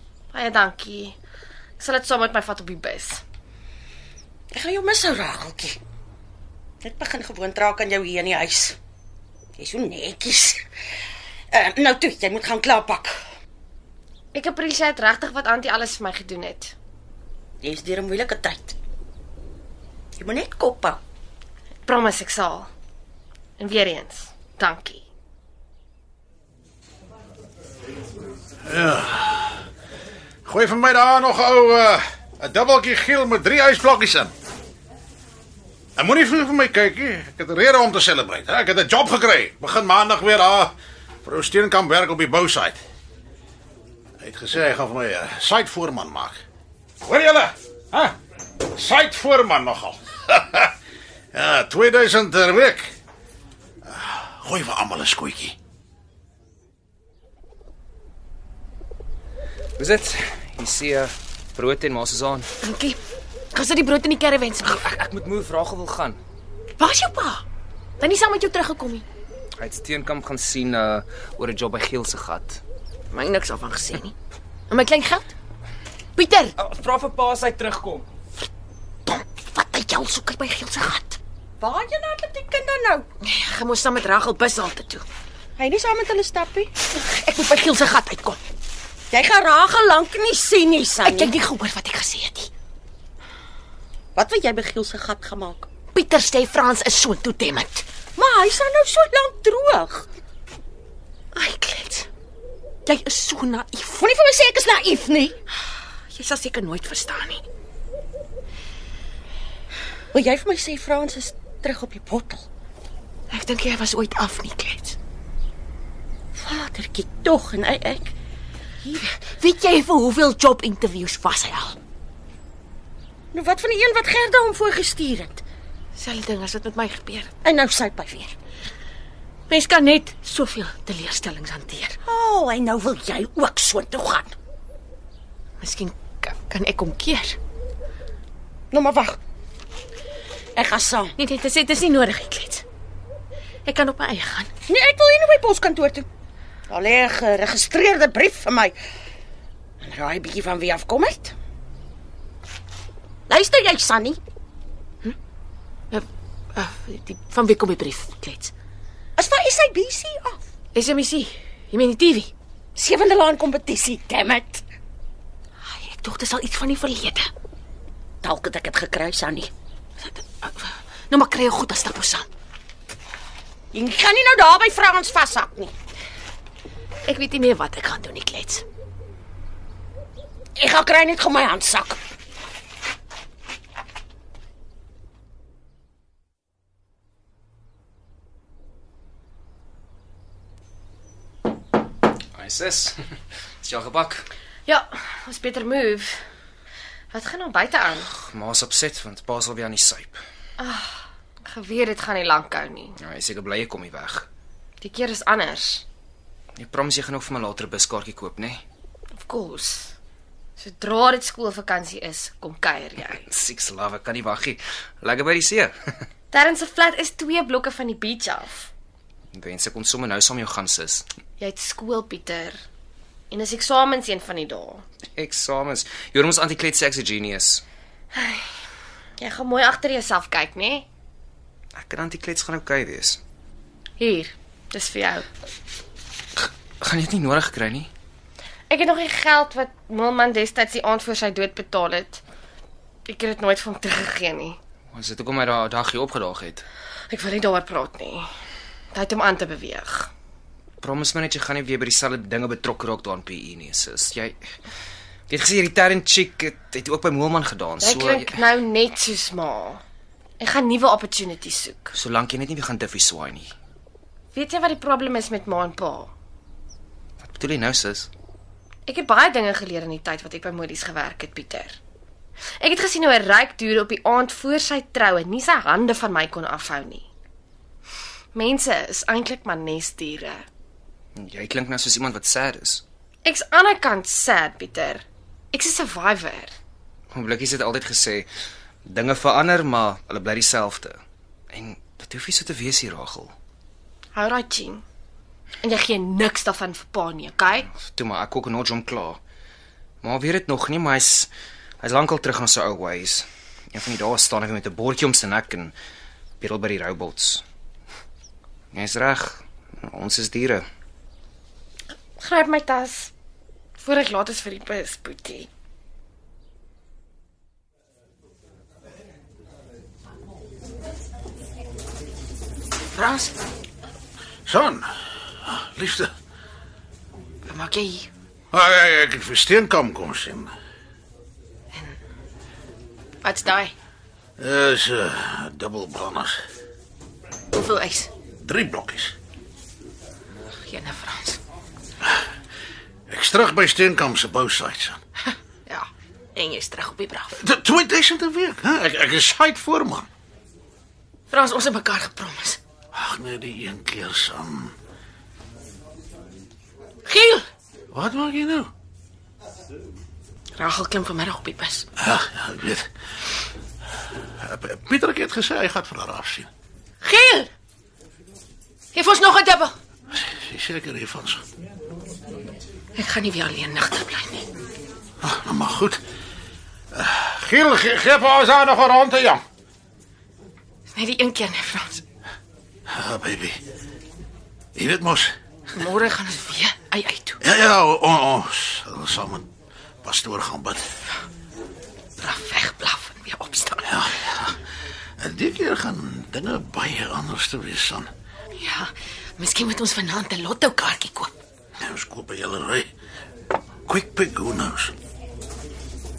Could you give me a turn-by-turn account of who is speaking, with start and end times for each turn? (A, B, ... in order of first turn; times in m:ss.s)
0:00.3-0:01.2 A
0:01.8-0:03.2 A
0:04.5-0:05.8 B
0:06.8-0:08.8 B
0:09.6-0:10.6 B
0:11.5-0:13.2 B
0:14.3-0:16.7 A
0:17.6-0:18.8 B
0:20.2-0:21.0 B
0:21.8-0:22.7 A
0:23.6-0:25.0 A
0:28.6-0:29.6 C
0:30.4-0:34.3 C
0:36.0-0:40.7 C
0:41.2-0:42.8 C
0:44.2-0:46.4 C
0:47.0-0:48.1 C
0:48.7-0:50.7 C
0:51.3-0:52.9 C
0:53.9-0:55.6 C
0:59.8-1:02.5 D
1:02.6-1:03.0 E
1:03.5-1:04.9 E
1:04.8-1:06.2 D
1:06.8-1:07.4 E
1:08.0-1:09.0 E
1:09.6-1:12.6 D
1:13.1-1:14.1 E
1:14.7-1:15.3 E
1:16.2-1:16.5 E
1:16.6-1:18.0 D
1:19.0-1:21.2 E
1:21.6-1:23.0 B
1:23.2-1:25.0 E
1:25.6-1:26.7 B
1:26.9-1:28.4 E
1:29.1-1:31.3 B
1:31.0-1:32.5 E
1:34.1-1:35.7 B
1:35.9-1:37.8 E
1:38.2-1:40.1 B
1:41.3-1:42.1 E
1:42.8-1:43.8 E
1:43.8-1:45.4 B
1:46.1-1:47.4 E
1:50.1-1:52.5 B
1:53.3-1:55.0 E
1:56.3-1:58.1 B
1:58.8-1:59.2 B
1:59.2-2:01.8 E
2:03.3-2:05.4 B
2:05.9-2:07.3 E
2:07.4-2:08.3 B
2:09.5-2:12.0 E
2:12.0-2:14.3 B
2:15.6-2:17.4 E
2:18.7-2:19.2 B
2:20.5-2:21.1 B
2:21.2-2:22.6 E
2:23.6-2:24.5 E
2:24.7-2:26.1 B
2:26.7-2:28.8 B
2:29.8-2:31.3 B
2:33.3-2:34.2 B
2:35.9-2:38.5 E
2:39.2-2:40.4 B
2:40.7-2:42.3 E
2:42.7-2:44.6 B
2:45.6-2:47.3 E
2:48.2-2:49.5 B
2:50.0-2:52.3 E
2:53.7-2:55.7 B
2:57.1-2:58.6 E
3:00.6-3:02.0 B
3:12.4-3:13.0 D
3:13.6-3:14.2 D
3:14.6-3:16.2 A
3:17.1-3:18.0 A
3:18.0-3:20.2 D
3:20.6-3:23.0 A
3:23.0-3:24.3 D
3:24.8-3:25.8 A
3:26.6-3:28.6 D
3:29.2-3:29.9 E
3:29.3-3:29.9 A
3:30.6-3:33.1 A
3:33.2-3:35.7 D
3:36.3-3:38.7 A
3:39.3-3:41.0 D
3:41.4-3:42.6 A
3:43.3-3:44.8 A
3:45.1-3:47.6 D
3:48.1-3:48.5 A
3:49.2-3:50.8 A
3:51.7-3:53.2 D
3:54.0-3:55.3 A
3:56.8-3:57.9 D
3:58.7-4:02.2 A
4:03.0-4:04.6 A
4:04.9-4:06.6 D
4:07.1-4:08.2 A
4:08.9-4:10.1 A
4:10.8-4:14.4 D
4:15.3-4:18.4 D
4:17.8-4:19.8 A
4:20.4-4:21.9 A
4:21.9-4:23.5 D
4:24.3-4:26.1 A
4:27.2-4:28.1 D
4:28.8-4:31.8 A
4:32.6-4:37.0 A
4:38.3-4:40.4 A
4:41.2-4:42.8 D
4:43.2-4:46.5 A
4:47.1-4:48.3 D
4:48.8-4:51.0 D
4:51.5-4:53.3 D
4:54.1-4:54.8 A
4:55.6-4:57.6 A
4:57.6-4:59.2 D
5:00.0-5:01.3 D
5:01.8-5:05.7 D
5:06.4-5:07.4 D
5:08.7-5:10.6 D
5:12.2-5:13.1 A
5:13.8-5:15.5 A
5:22.9-5:23.3 E
5:24.4-5:24.9 C
5:25.4-5:26.1 C
5:27.5-5:28.1 E
5:28.5-5:30.5 C
5:33.2-5:33.7 E
5:34.4-5:36.4 C
5:37.5-5:38.1 E
5:38.4-5:39.2 C
5:40.6-5:41.4 E
5:43.1-5:45.0 C
5:45.7-5:47.4 E
5:47.4-5:50.1 C
5:51.3-5:52.6 E
5:52.9-5:54.7 C
5:57.0-5:57.5 E
5:57.9-5:58.7 C
6:00.5-6:01.9 E
6:02.0-6:02.9 C
6:04.4-6:06.5 C
6:07.0-6:07.5 E
6:08.9-6:09.7 E
6:10.3-6:11.4 C
6:12.9-6:14.4 E
6:15.2-6:16.0 C
6:16.9-6:19.4 C
6:20.9-6:22.0 E
6:22.9-6:23.6 C
6:24.7-6:25.3 C
6:25.7-6:27.4 E
6:27.4-6:29.4 C
6:30.0-6:30.8 C
6:32.2-6:33.9 E
6:33.8-6:34.6 C
6:35.2-6:38.1 C
6:38.6-6:41.3 E
6:41.8-6:42.9 C
6:43.8-6:44.9 C